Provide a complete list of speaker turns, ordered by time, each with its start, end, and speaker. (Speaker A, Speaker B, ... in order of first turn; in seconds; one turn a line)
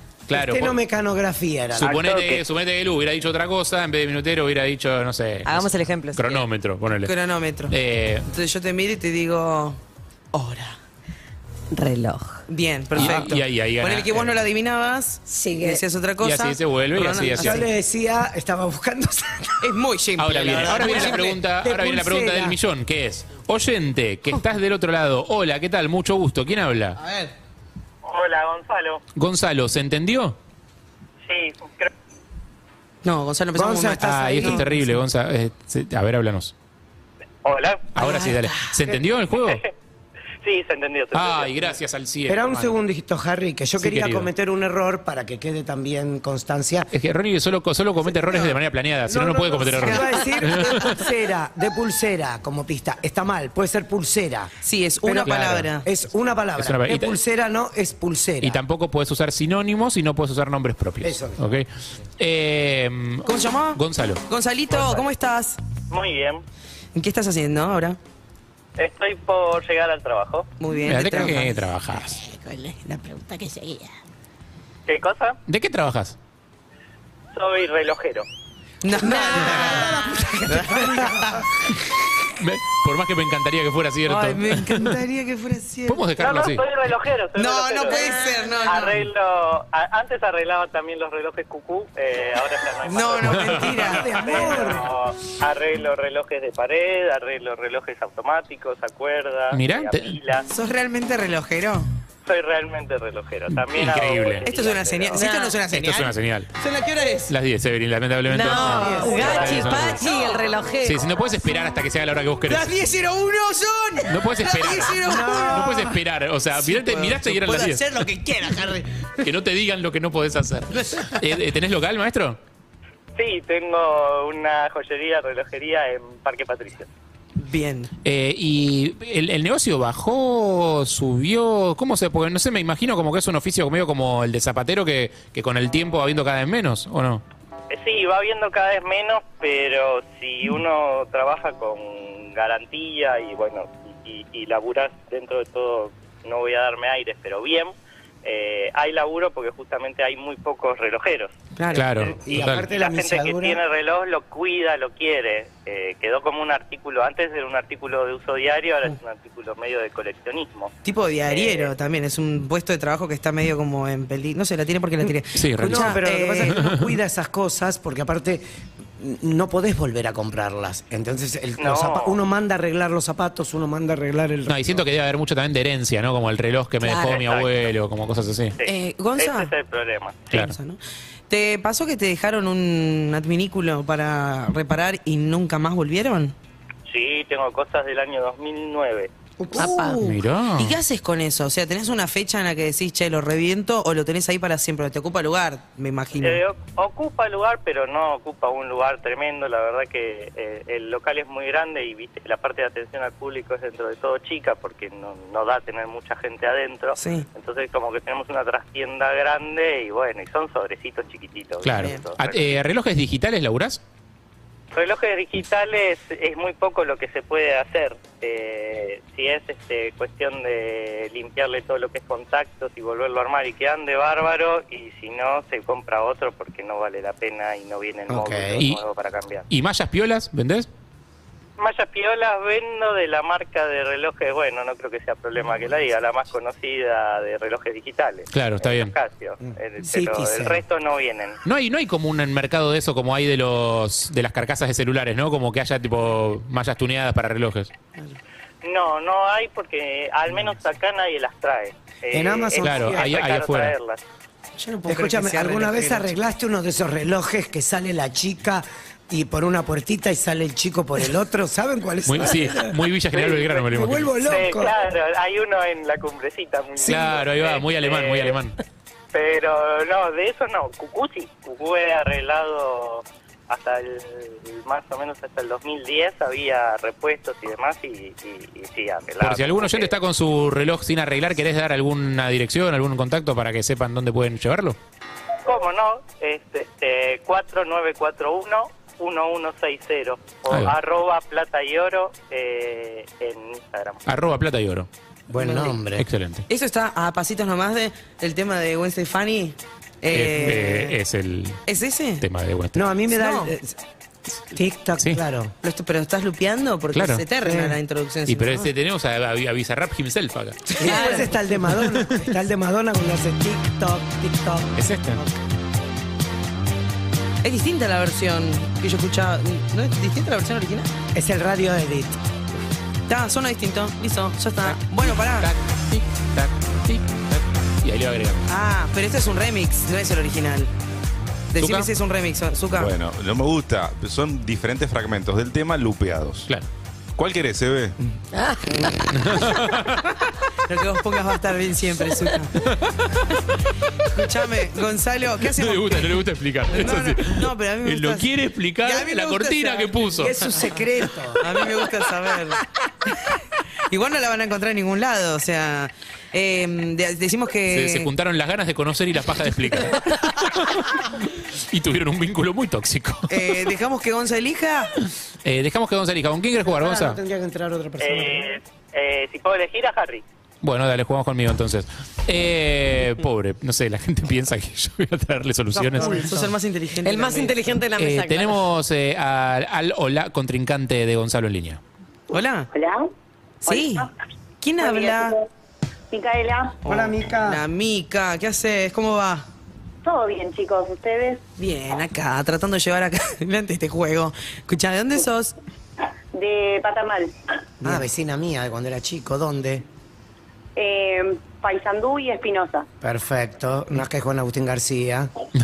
Speaker A: 0.3-0.8
Speaker B: 0.3-2.1
Speaker A: 1.8-7.1
Speaker C: 5.5-6.4
Speaker D: 7.0-7.8
Speaker A: 7.7-8.2
Speaker D: 8.3-9.8
Speaker D: 10.3-10.8
Speaker C: 11.7-12.4
Speaker D: 12.5-17.6
Speaker A: 12.9-14.4
Speaker C: 15.3-15.8
Speaker A: 16.2-17.6
Speaker B: 17.3-19.8
Speaker D: 19.6-21.4
Speaker A: 20.2-27.0
Speaker B: 20.8-22.6
Speaker D: 27.0-27.3
Speaker E: 28.1-29.0
Speaker A: 29.2-30.4
Speaker E: 31.3-31.9
Speaker D: 33.0-34.6
Speaker B: 33.5-35.0
Speaker A: 34.0-36.5
Speaker E: 37.4-37.9
Speaker A: 37.9-39.6
Speaker D: 38.0-38.3
Speaker E: 39.3-39.6
Speaker E: 40.4-41.8
Speaker A: 41.1-42.7
Speaker B: 42.3-46.9
Speaker A: 43.8-44.3
Speaker A: 46.9-51.0
Speaker B: 49.1-54.5
Speaker D: 49.8-50.2
Speaker D: 54.6-55.9
Speaker B: 55.1-55.3
Speaker A: 55.2-55.7
Speaker B: 55.9-58.6
Speaker A: 56.6-57.2
Speaker A: 58.4-61.7
Speaker B: 61.0-61.4
Speaker A: 62.2-64.2
Speaker D: 63.3-65.6
Speaker E: 64.7-65.0
Speaker E: 65.9-66.4
Speaker D: 67.0-68.0
Speaker E: 68.8-70.5
Speaker D: 70.6-73.9
Speaker A: 70.8-72.2
Speaker E: 74.9-75.4
Speaker A: 75.5-76.2
Speaker E: 77.3-78.3
Speaker D: 78.8-81.4
Speaker B: 79.0-81.5
Speaker A: 82.4-85.0
Speaker D: 84.0-86.1
Speaker A: 85.9-86.6
Speaker E: 86.2-88.1
Speaker D: 87.4-89.0
Speaker C: 87.9-88.7
Speaker E: 88.7-100.5
Speaker D: 92.9-94.7
Speaker A: 93.4-93.8
Speaker B: 93.6-94.9
Speaker A: 99.5-100.2
Speaker D: 100.5-101.9
Speaker E: 102.3-105.2
Speaker A: 103.7-104.5
Speaker D: 104.5-107.3
Speaker C: 105.1-105.6
Speaker A: 105.7-106.5
Speaker A: 107.3-110.0
Speaker C: 108.3-111.0
Speaker D: 108.6-109.5
Speaker B: 108.7-109.2
Speaker E: 109.2-109.7
Speaker A: 110.8-112.7
Speaker D: 112.5-116.0
Speaker A: 114.1-117.9
Speaker B: 115.0-115.9
Speaker D: 116.6-118.9
Speaker A: 119.2-122.4
Speaker D: 120.7-121.3
Speaker E: 123.2-126.9
Speaker D: 127.4-127.9
Speaker A: 128.0-137.2
Speaker E: 137.7-151.3
Speaker D: 151.6-151.9
Speaker A: 151.7-152.7
Speaker E: 152.0-160.7
Speaker B: 152.2-153.6
Speaker D: 160.8-166.6
Speaker E: 161.3-161.7
Speaker B: 165.0-168.4
Speaker A: 165.4-166.0
Speaker A: 166.5-166.9
Speaker B: 169.0-174.8
Speaker E: 171.6-172.2
Speaker A: 174.5-178.6
Speaker E: 177.0-177.5
Speaker E: 178.6-180.3
Speaker D: 178.7-179.5
Speaker D: 180.3-180.8
Speaker D: 181.3-186.3
Speaker E: 186.9-189.1
Speaker B: 189.4-189.9
Speaker D: 189.6-196.4
Speaker C: 189.6-190.0
Speaker A: 190.0-190.8
Speaker E: 196.2-212.2
Speaker D: 207.0-207.2
Speaker A: 211.6-213.8
Speaker D: 211.8-212.0
Speaker E: 214.7-229.4
Speaker B: 228.1-228.6
Speaker A: 229.5-230.7
Speaker E: 231.6-241.4
Speaker A: 238.3-238.9
Speaker B: 239.8-240.6
Speaker A: 241.4-247.7
Speaker E: 248.6-254.0
Speaker B: 252.1-253.1
Speaker A: 252.6-253.8
Speaker D: 254.6-256.1
Speaker B: 254.9-264.8
Speaker A: 262.1-264.1
Speaker E: 264.2-268.4
Speaker B: 266.8-267.1
Speaker A: 266.8-268.6
Speaker E: 269.1-279.9
Speaker A: 279.2-284.8
Speaker E: 285.4-294.0
Speaker A: 290.5-290.8
Speaker A: 294.1-294.9
Speaker B: 295.3-296.1
Speaker D: 295.4-295.8
Speaker A: 295.9-296.5
Speaker D: 296.5-301.0
Speaker A: 300.1-301.6
Speaker D: 301.7-302.2
Speaker A: 302.2-302.9
Speaker B: 302.8-303.8
Speaker D: 303.1-303.5
Speaker B: 304.5-305.5
Speaker D: 305.6-308.7
Speaker A: 306.9-307.3
Speaker B: 307.4-307.8
Speaker A: 308.3-311.1
Speaker B: 310.7-315.3
Speaker D: 310.8-311.4
Speaker A: 311.9-312.2
Speaker A: 314.8-315.2
Speaker D: 317.4-320.9
Speaker B: 321.1-322.2
Speaker D: 323.1-325.5
Speaker A: 324.6-328.5
Speaker D: 328.5-330.7
Speaker D: 331.5-332.9
Speaker A: 331.6-331.9
Speaker F: 332.7-336.5
Speaker F: 337.2-337.9
Speaker C: 338.3-339.4
Speaker A: 339.1-340.1
Speaker D: 340.7-342.6
Speaker A: 342.6-343.2
Speaker D: 344.1-348.3
Speaker A: 345.6-350.5
Speaker D: 348.8-350.6
Speaker B: 350.2-351.4
Speaker D: 351.4-352.6
Speaker D: 353.9-358.1
Speaker A: 357.7-363.3
Speaker D: 363.3-364.9
Speaker A: 365.4-367.2
Speaker B: 366.6-368.5
Speaker E: 368.0-370.2
Speaker A: 370.6-376.3
Speaker B: 375.7-376.4
Speaker D: 376.1-377.6
Speaker C: 377.0-378.6
Speaker A: 378.0-381.8
Speaker D: 382.3-382.7
Speaker G: 382.7-383.1
Speaker G: 383.6-384.1
Speaker D: 383.7-384.1
Speaker D: 384.6-385.4
Speaker G: 384.8-385.5
Speaker G: 386.1-386.8
Speaker D: 386.8-389.5
Speaker B: 386.9-387.6
Speaker G: 390.0-391.4
Speaker D: 391.6-395.6
Speaker G: 396.3-397.4
Speaker B: 397.8-399.9
Speaker G: 400.8-402.9
Speaker B: 403.0-405.3